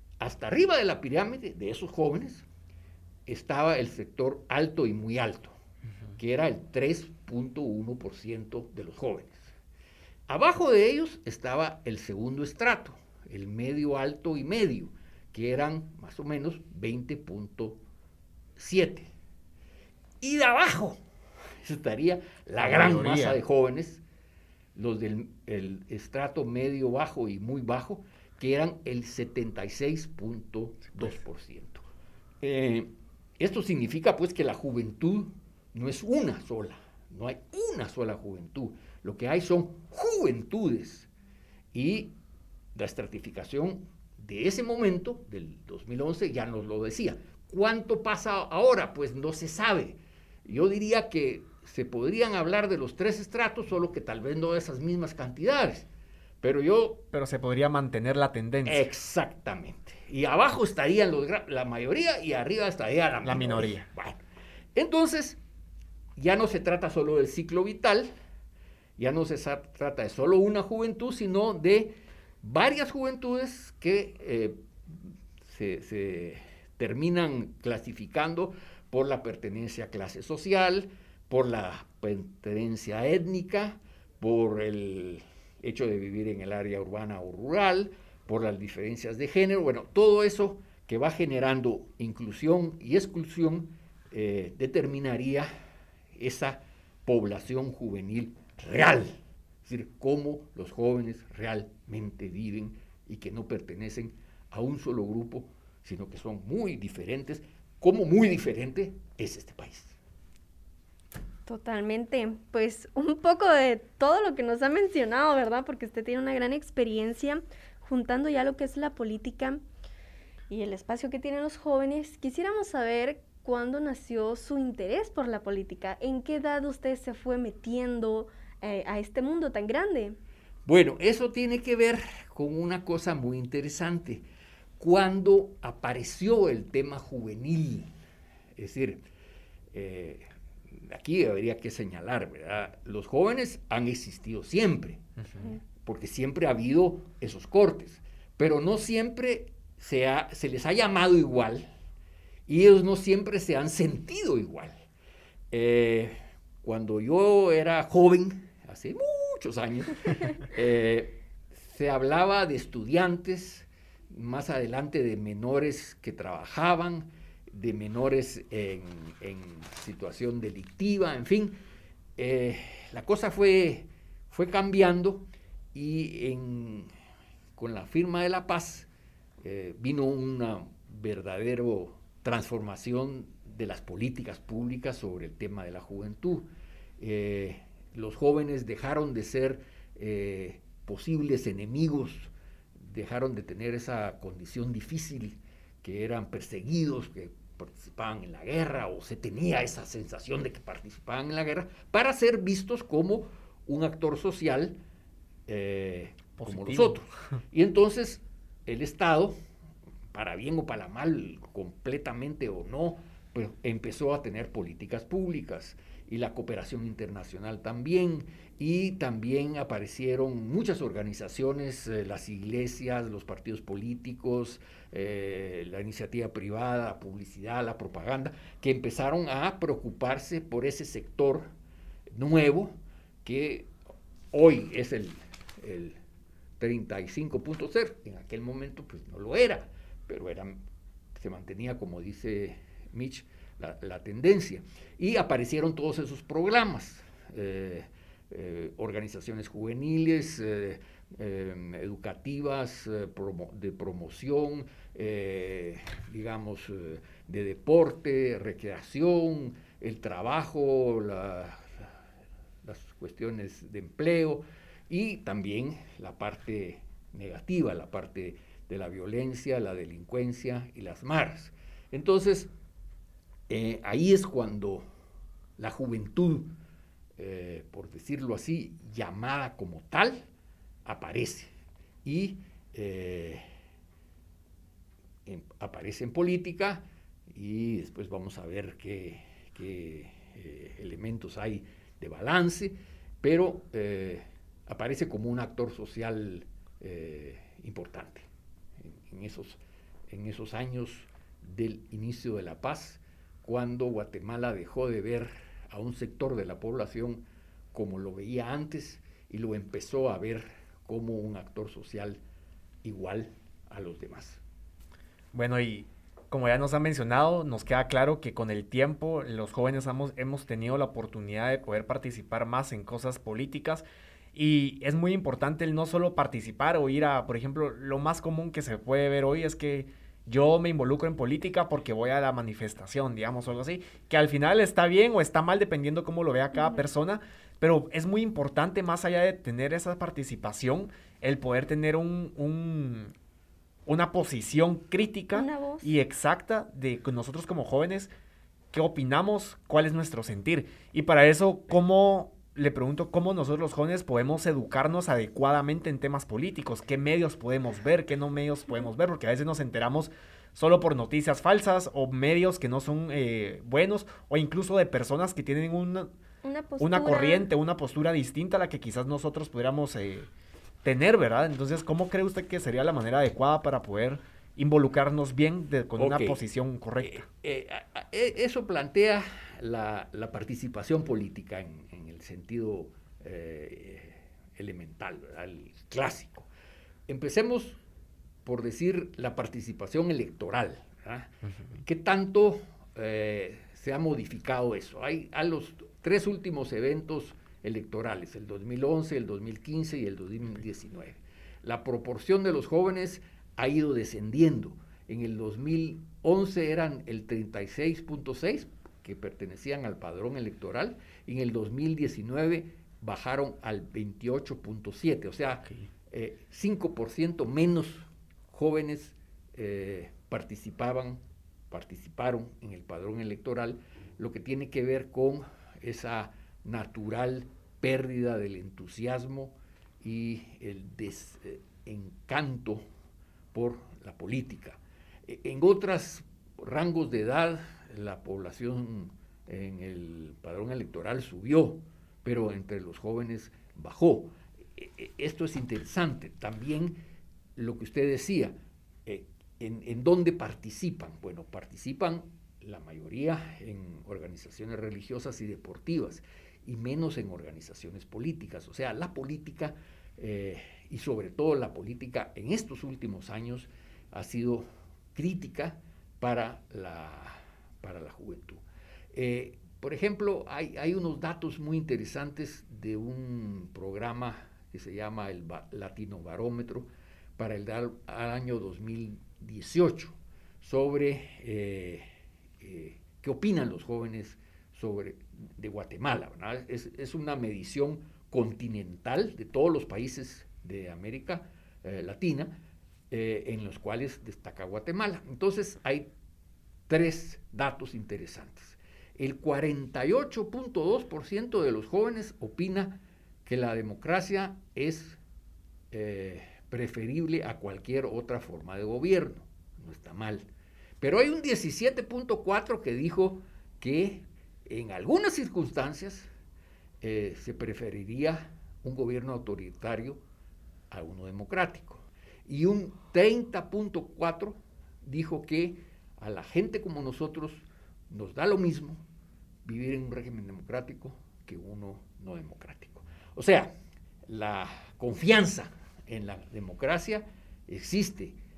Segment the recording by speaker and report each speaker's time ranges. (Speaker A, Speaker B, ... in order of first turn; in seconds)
Speaker A: 0.2-2.5, 3.3-5.5, 6.2-9.5, 10.3-17.8, 18.6-19.1, 20.2-21.0, 21.6-24.0, 24.8-31.8, 32.4-41.1, 41.7-42.1, 42.8-55.9, 56.4-57.0, 58.6-64.2, 64.8-65.4, 66.2-68.1, 69.0-95.5, 96.2-110.0, 130.7-134.2, 134.8-137.9, 138.6-139.0, 139.7-151.7, 152.5-154.7, 155.5-171.6, 172.2-176.9, 177.6-178.9, 179.4-186.5, 187.0-204.8, 205.5-209.4, 210.1-231.5, 232.1-233.7, 234.3-236.0, 236.6-240.6, 241.2-261.9, 262.6-272.5, 273.5-274.9, 275.6-276.5, 277.2-280.3, 280.9-281.5, 282.1-283.4, 285.3-298.3, 298.8-312.2, 312.8-314.4, 376.0-376.4, 377.0-386.5, 387.1-387.8, 388.4-432.9, 433.5-447.0, 447.6-448.6, 449.1-468.6, 469.1-482.1, 482.6-492.6, 493.1-496.1, 496.9-505.2, 505.9-510.5, 511.0-516.3, 517.0-520.2, 520.9-529.0, 529.6-533.7, 534.3-538.4
Speaker B: 22.6-23.4, 57.1-58.9, 63.2-63.9, 206.4-207.0, 315.3-343.1, 343.9-348.1, 348.7-366.1, 366.8-370.3, 370.8-377.3
Speaker C: 111.5-119.6, 120.5-130.2, 336.6-336.8, 345.3-345.9, 366.4-367.5